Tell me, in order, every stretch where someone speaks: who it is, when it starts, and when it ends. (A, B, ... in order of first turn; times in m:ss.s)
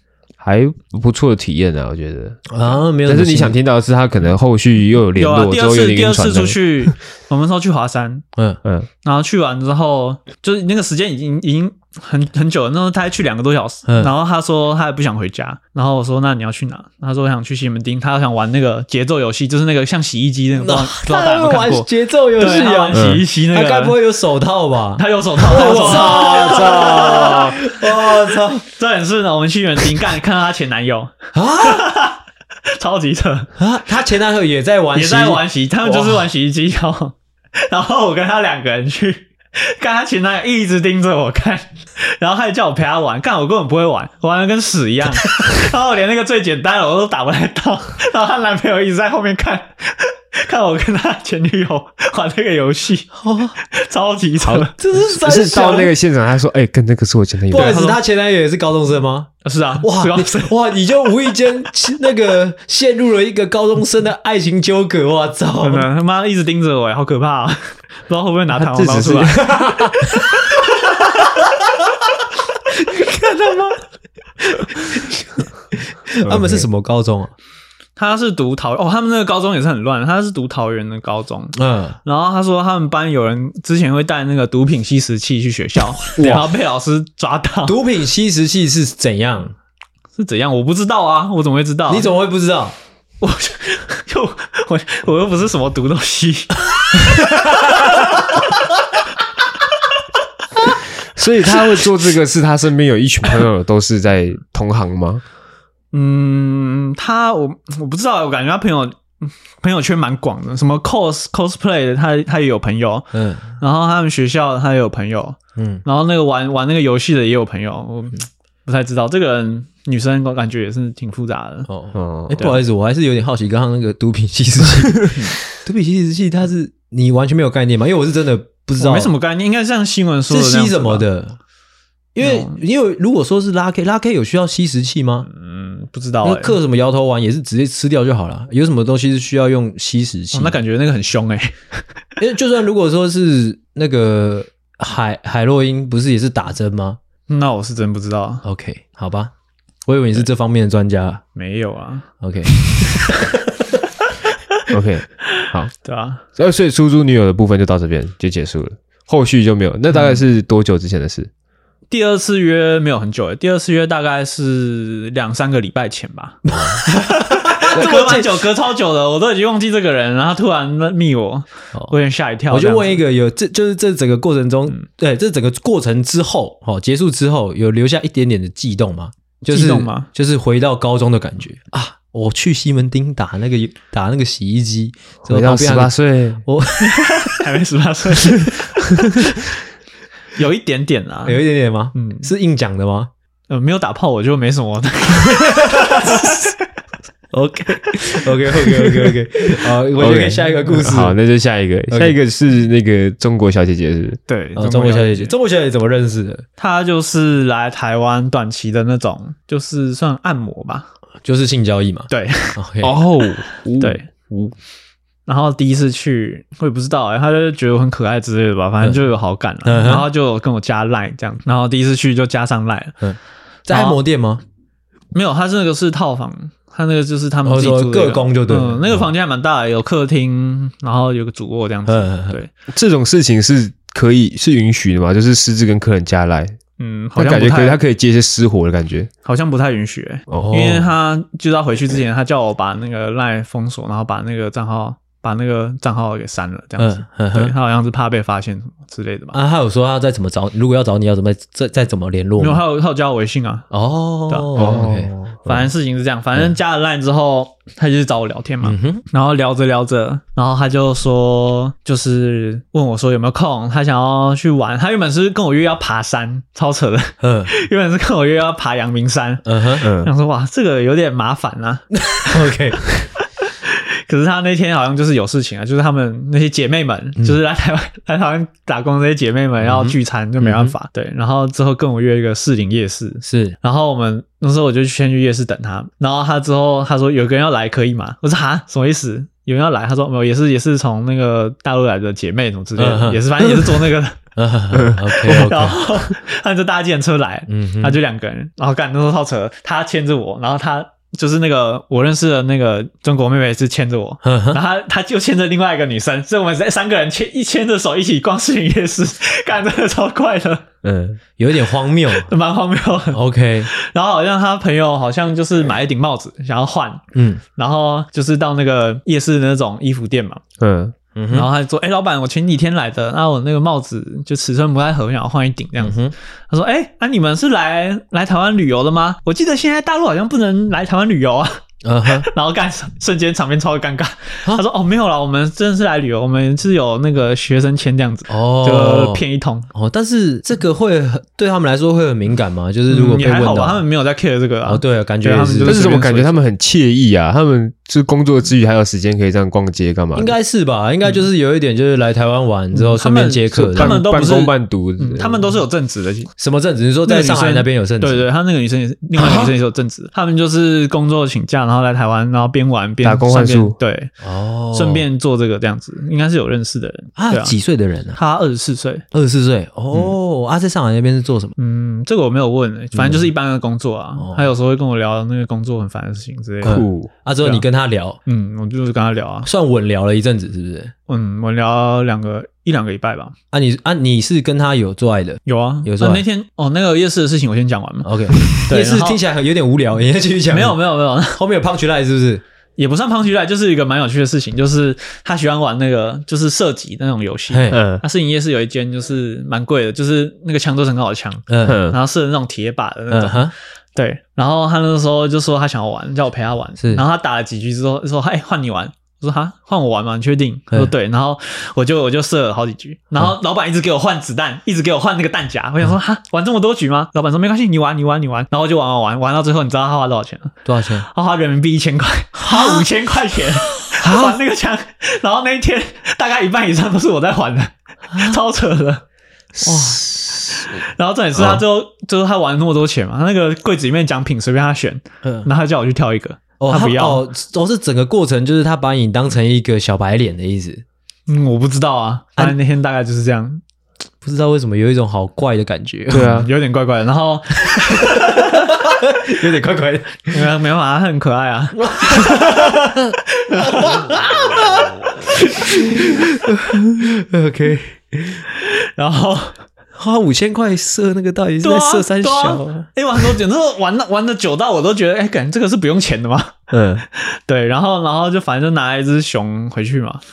0:00.4-0:06.9 A
0:02.5-0:03.6 B
0:05.2-0:08.2 C
0:08.4-0:08.6 B
0:09.0-0:24.0 C
0:13.9-0:14.1 B
0:20.6-0:28.6 B
0:22.9-0:23.2 A
0:25.0-0:33.5 C
0:25.7-0:27.6 A
0:31.3-0:31.9 B
0:33.6-0:36.3 B
0:34.9-0:54.7 C
0:53.1-0:53.6 B
0:54.4-0:57.8 A
0:54.8-0:55.9 B
0:57.5-1:05.9 B
0:57.5-0:58.0 C
0:59.4-1:00.5 C
1:05.6-1:10.2 C
1:08.6-1:10.2 A
1:10.8-1:11.3 C
1:12.8-1:13.8 B
1:14.7-1:17.3 B
1:16.2-1:16.6 A
1:18.0-1:27.8 C
1:21.5-1:22.0 B
1:26.2-1:26.5 A
1:26.2-1:26.4 B
1:27.6-1:29.5 B
1:30.2-1:32.1 C
1:31.9-1:32.8 B
1:33.2-1:38.5 C
1:41.1-1:45.2 A
1:45.9-2:01.7 C
1:53.1-1:53.6 B
1:55.6-1:55.8 B
2:01.7-2:09.1 B
2:01.9-2:02.4 A
2:08.8-2:11.0 C
2:10.3-2:11.4 B
2:12.1-2:15.3 B
2:12.2-2:12.6 C
2:15.2-2:16.6 C
2:16.2-2:20.6 B
2:20.3-2:21.8 C
2:22.2-2:27.0 B
2:27.3-2:28.4 C
2:28.4-2:29.3 B
2:29.8-2:31.2 B
2:31.3-2:32.1 C
2:32.2-2:33.4 B
2:32.6-2:33.0 C
2:34.0-2:34.6 C
2:34.7-2:35.7 A
2:35.3-2:36.2 C
2:36.3-2:41.3 A
2:41.9-2:53.0 C
2:46.5-2:48.4 B
2:52.5-3:07.4 B
2:59.4-3:00.1 C
3:05.2-3:06.4 A
3:06.8-3:09.5 C
3:10.3-3:11.4 C
3:11.2-3:13.1 B
3:11.9-3:12.3 C
3:13.5-3:16.5 C
3:17.3-3:21.2 B
3:20.0-3:24.2 A
3:21.9-3:22.2 B
3:24.3-3:25.3 C
3:24.6-3:26.4 B
3:26.6-3:30.9 C
3:31.2-3:33.0 B
3:32.1-3:32.6 C
3:32.8-3:34.5 A
3:33.8-3:34.0 C
3:35.2-3:43.0 C
3:39.6-3:40.1 B
3:43.0-3:44.4 B
3:43.7-3:44.0 C
3:45.1-3:52.5 C
3:47.4-3:49.1 B
3:51.8-3:52.4 B
3:52.7-3:56.6 A
3:56.8-3:57.8 C
3:57.2-3:59.1 A
3:59.2-4:09.4 C
4:00.4-4:00.9 B
4:06.8-4:07.5 B
4:09.3-4:12.6 B
4:12.4-4:13.7 C
4:13.7-4:15.6 B
4:14.3-4:14.8 C
4:14.6-4:15.5 A
4:15.4-4:54.2 C
4:18.6-4:19.0 B
4:27.2-4:27.5 B
4:29.4-4:29.8 B
4:29.8-4:30.1 A
4:32.0-4:32.8 B
4:39.6-4:40.7 B
4:43.2-4:43.6 B
4:52.8-4:55.8 B
4:54.7-4:55.5 A
4:55.1-5:10.6 C
4:57.5-4:58.0 B
5:04.2-5:04.6 B
5:10.8-5:11.2 A
5:11.4-5:12.3 B
5:12.1-5:17.0 C
5:13.1-5:13.7 B
5:17.1-5:17.4 B
5:17.6-5:20.4 C
5:20.6-5:20.9 A
5:21.2-5:21.5 B
5:21.3-5:26.0 C
5:25.8-5:26.1 B
5:26.5-5:39.7 C
5:31.8-5:32.3 B
5:38.3-5:43.8 B
5:42.9-5:46.4 C
5:44.6-5:45.8 B
5:45.6-5:50.3 A
5:50.1-5:54.0 B
5:52.7-5:56.3 C
5:53.5-5:55.4 A
5:56.4-5:58.2 B
5:57.0-6:04.1 C
5:59.2-5:59.5 B
6:03.0-6:03.8 A
6:04.2-6:05.0 B
6:04.7-6:07.5 C
6:07.2-6:08.2 B
6:08.1-6:09.0 C
6:09.1-6:11.5 B
6:11.6-6:16.8 C
6:12.9-6:13.3 B
6:14.2-6:14.5 B
6:16.6-6:18.2 B
6:16.6-6:17.1 A
6:18.2-6:19.5 C
6:19.4-6:20.9 B
6:21.1-6:23.3 C
6:23.5-6:26.2 B
6:25.4-6:29.2 C
6:28.0-6:32.4 B
6:30.5-6:31.4 C
6:32.8-7:09.0 C
6:37.5-6:37.8 B
6:37.7-6:38.0 A
6:41.5-6:41.8 B
6:41.6-6:42.0 A
6:43.1-6:43.5 B
6:46.8-6:47.0 B
7:00.6-7:01.1 B
7:02.4-7:02.9 B
7:03.9-7:04.3 B
7:08.1-7:08.4 B
7:09.6-7:10.6 B
7:09.6-7:17.2 C
7:11.4-7:11.6 B
7:15.2-7:15.5 B
7:16.6-7:20.8 B
7:21.3-7:23.6 C
7:24.2-7:26.5 B
7:26.1-7:26.5 A
7:26.2-7:28.7 C
7:27.7-7:30.4 B
7:30.3-7:34.2 C
7:31.8-7:38.4 B
7:35.3-7:36.1 C
7:38.5-7:39.6 C
7:40.0-7:42.9 B
7:41.6-7:50.2 C
7:46.7-7:47.0 A